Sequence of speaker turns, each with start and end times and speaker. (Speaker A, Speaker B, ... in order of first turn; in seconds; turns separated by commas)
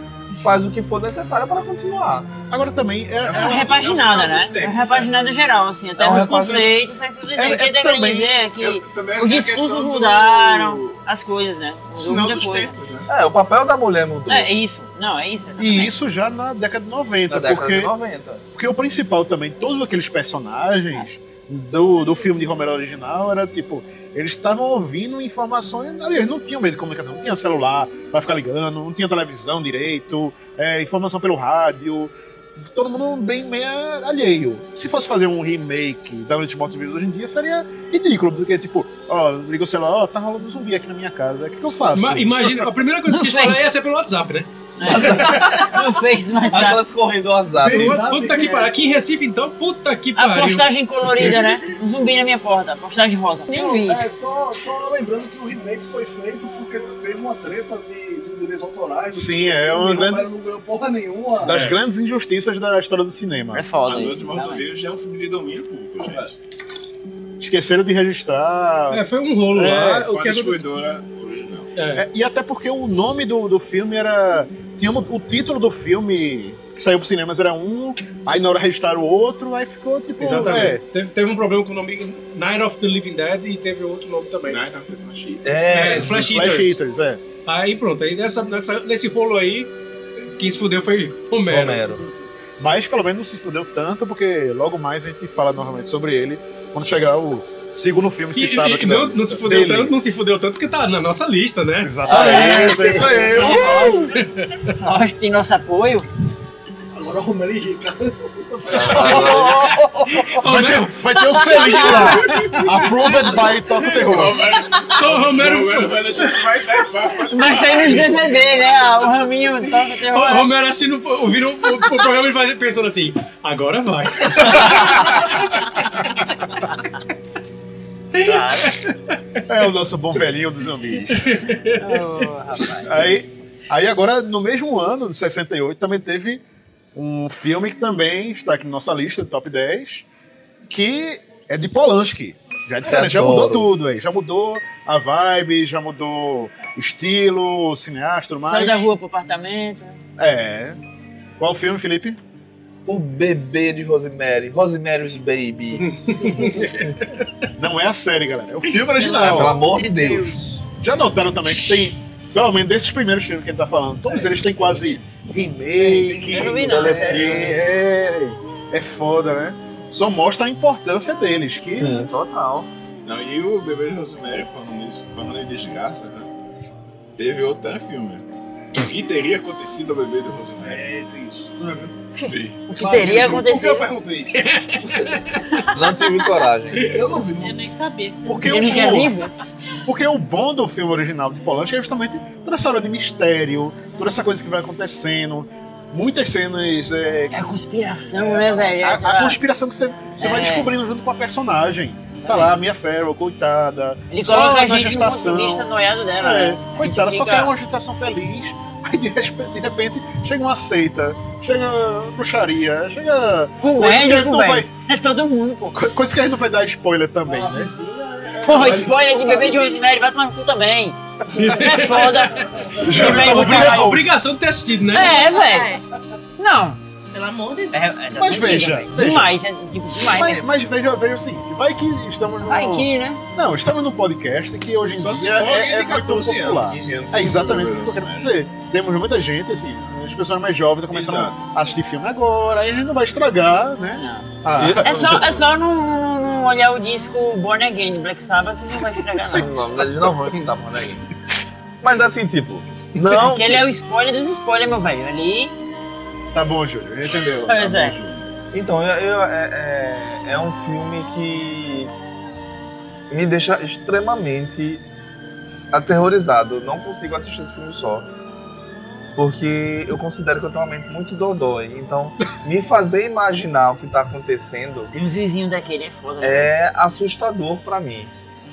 Speaker A: 0.3-2.3, Speaker B: 2.5-3.7, Speaker C: 3.2-5.1, Speaker D: 3.3-12.7, Speaker A: 6.0-6.7, Speaker B: 7.3-8.3, Speaker C: 8.6-11.0, Speaker C: 11.9-13.1, Speaker A: 13.1-14.5, Speaker D: 14.3-15.9, Speaker B: 15.6-17.9, Speaker A: 17.3-18.4, Speaker B: 18.5-42.5, Speaker E: 41.9-44.5, Speaker D: 43.1-43.7, Speaker D: 44.8-46.8, Speaker A: 44.8-45.8, Speaker A: 46.5-48.0, Speaker F: 47.6-48.7, Speaker E: 47.6-50.7, Speaker D: 50.1-54.0, Speaker F: 53.5-61.6, Speaker B: 59.1-60.3, Speaker B: 61.4-63.7, Speaker E: 61.5-61.8, Speaker D: 63.5-64.6, Speaker C: 63.8-66.3, Speaker B: 67.4-69.0, Speaker E: 68.9-70.6, Speaker B: 69.5-70.1, Speaker C: 70.0-71.7, Speaker E: 71.8-72.0, Speaker B: 71.9-80.8, Speaker E: 80.2-84.6, Speaker C: 84.4-86.0, Speaker A: 85.4-86.2, Speaker E: 85.7-86.8, Speaker B: 85.9-87.2, Speaker E: 87.5-89.7, Speaker E: 90.4-91.9, Speaker A: 91.5-92.1, Speaker B: 92.6-99.9, Speaker E: 98.3-101.9, Speaker B: 101.8-104.0, Speaker D: 102.1-104.1, Speaker F: 102.4-103.1, Speaker E: 104.2-104.5, Speaker D: 104.8-106.1, Speaker F: 106.9-109.3, Speaker A: 108.7-109.7, Speaker B: 108.8-109.5, Speaker C: 109.0-109.2, Speaker D: 109.3-109.7, Speaker E: 110.1-111.4, Speaker B: 110.2-114.4, Speaker C: 111.9-113.0, Speaker C: 113.8-118.2, Speaker E: 115.0-116.0, Speaker D: 117.3-120.5, Speaker E: 120.1-125.3, Speaker E: 128.1-128.9, Speaker D: 128.2-128.8, Speaker B: 129.5-131.4, Speaker E: 131.1-132.0, Speaker D: 131.8-133.1, Speaker B: 132.8-136.4, Speaker B: 136.9-140.1, Speaker B: 140.7-148.9, Speaker A: 142.8-143.7, Speaker D: 148.4-150.0, Speaker B: 150.2-150.8, Speaker B: 151.4-152.2, Speaker A: 152.8-156.9, Speaker E: 155.8-156.8, Speaker B: 157.6-159.6, Speaker A: 159.0-160.4, Speaker G: 159.7-160.2, Speaker B: 160.8-172.0, Speaker F: 165.8-167.4, Speaker D: 166.1-167.3, Speaker A: 166.6-167.6, Speaker A: 171.7-172.7, Speaker C: 173.0-176.3, Speaker C: 177.2-178.2, Speaker C: 178.8-181.2, Speaker F: 180.9-181.9, Speaker D: 182.1-183.9, Speaker C: 182.3-182.7, Speaker F: 182.7-185.2, Speaker E: 184.3-185.6, Speaker A: 185.7-187.0, Speaker F: 186.7-187.6, Speaker G: 187.3-189.1, Speaker B: 188.2-189.2, Speaker D: 188.4-189.3, Speaker B: 189.8-197.4, Speaker D: 197.3-199.4, Speaker B: 198.2-214.7, Speaker D: 200.2-200.7, Speaker D: 202.2-202.6, Speaker D: 204.1-207.5, Speaker D: 213.6-215.8, Speaker B: 215.7-217.7, Speaker F: 217.2-219.8, Speaker D: 218.4-223.9, Speaker F: 221.3-222.8, Speaker E: 221.3-225.2, Speaker B: 222.8-224.2, Speaker D: 224.9-225.7, Speaker G: 225.2-225.8, Speaker F: 225.4-225.6, Speaker D: 226.4-226.8, Speaker G: 227.1-227.8, Speaker D: 227.7-230.4, Speaker B: 228.1-229.3, Speaker B: 230.0-245.2, Speaker D: 232.4-233.2, Speaker C: 234.9-238.3, Speaker C: 240.9-241.4, Speaker D: 244.0-244.3, Speaker A: 244.6-245.4, Speaker D: 244.8-249.5, Speaker A: 249.2-251.0, Speaker A: 251.8-253.7, Speaker D: 253.1-255.5, Speaker B: 256.3-258.1, Speaker D: 257.5-258.0, Speaker A: 258.5-261.9, Speaker A: 263.1-264.8, Speaker A: 265.7-268.1, Speaker A: 269.2-274.9, Speaker D: 274.9-276.5, Speaker A: 276.2-278.1